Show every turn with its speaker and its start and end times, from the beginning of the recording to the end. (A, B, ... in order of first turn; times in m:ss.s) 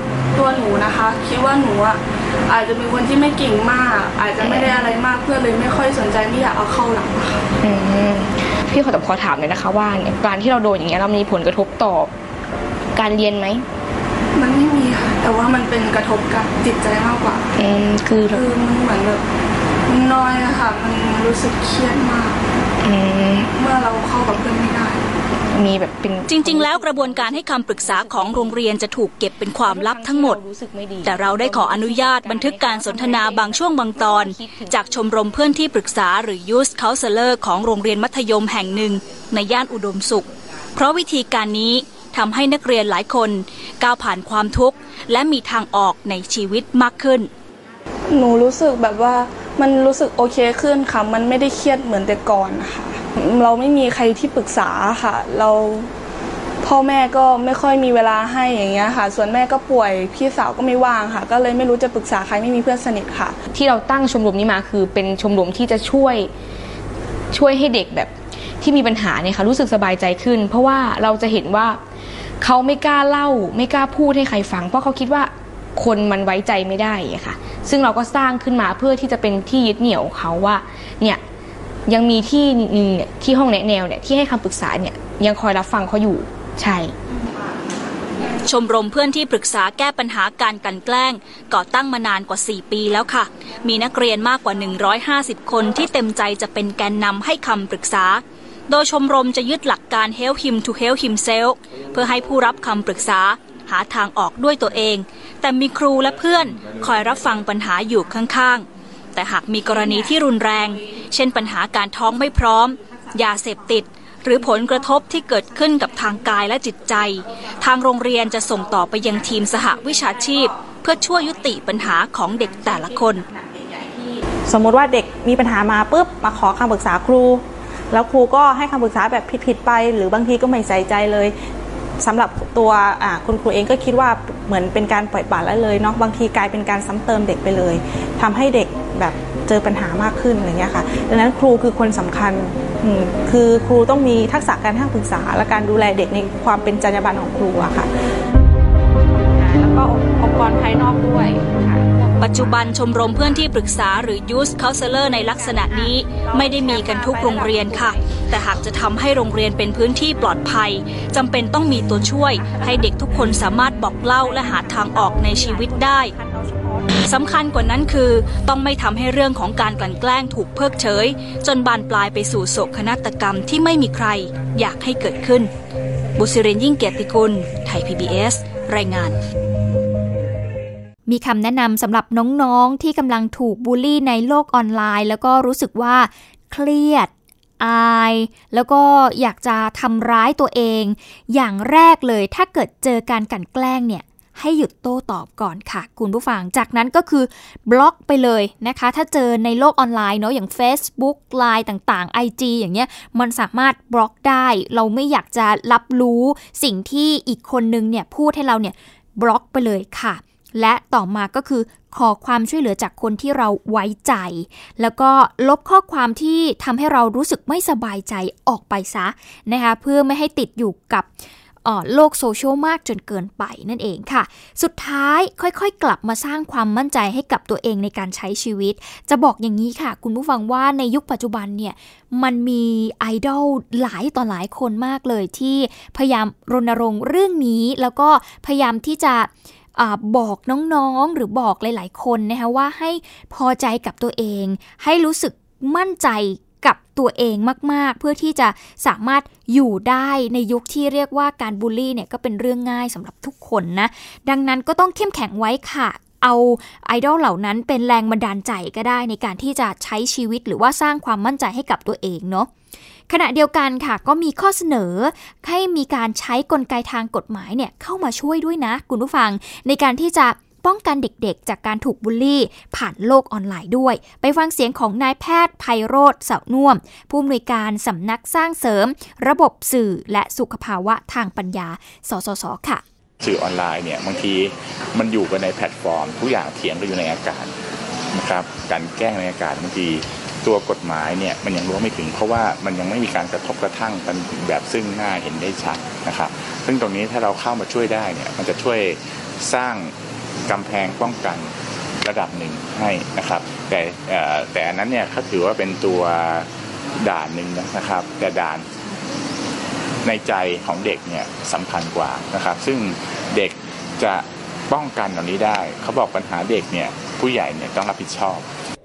0:00.4-0:07.4 A
0:04.4-0:04.8 B
0:07.6-0:12.1 B
0:13.0-0:13.6 B
0:14.4-0:17.5 A
0:17.6-0:18.5 B
0:18.3-0:19.2 A
0:19.9-0:22.4 A
0:22.8-0:23.5 B
0:23.5-0:25.0 A
0:25.5-0:28.6 B
0:26.3-0:30.4 C
0:29.6-0:34.8 B
0:31.0-0:47.3 C
0:48.1-0:55.9 A
0:56.6-1:03.4 A
1:03.5-1:06.3 B
1:07.3-1:11.8 B
1:12.4-1:21.2 B
1:21.9-1:26.9 B
1:28.4-2:03.3 C
2:04.5-2:11.3 D
2:12.0-2:27.9 D
2:32.2-2:46.1 C
2:47.0-2:55.5 C
2:56.2-2:59.2 C
3:01.1-3:41.1 E
3:41.6-4:22.5 E
4:23.1-4:42.8 E
4:43.2-4:47.5 F
4:48.1-4:59.9 F
5:00.5-5:06.5 F
5:07.0-5:08.7 F
5:10.0-5:18.5 F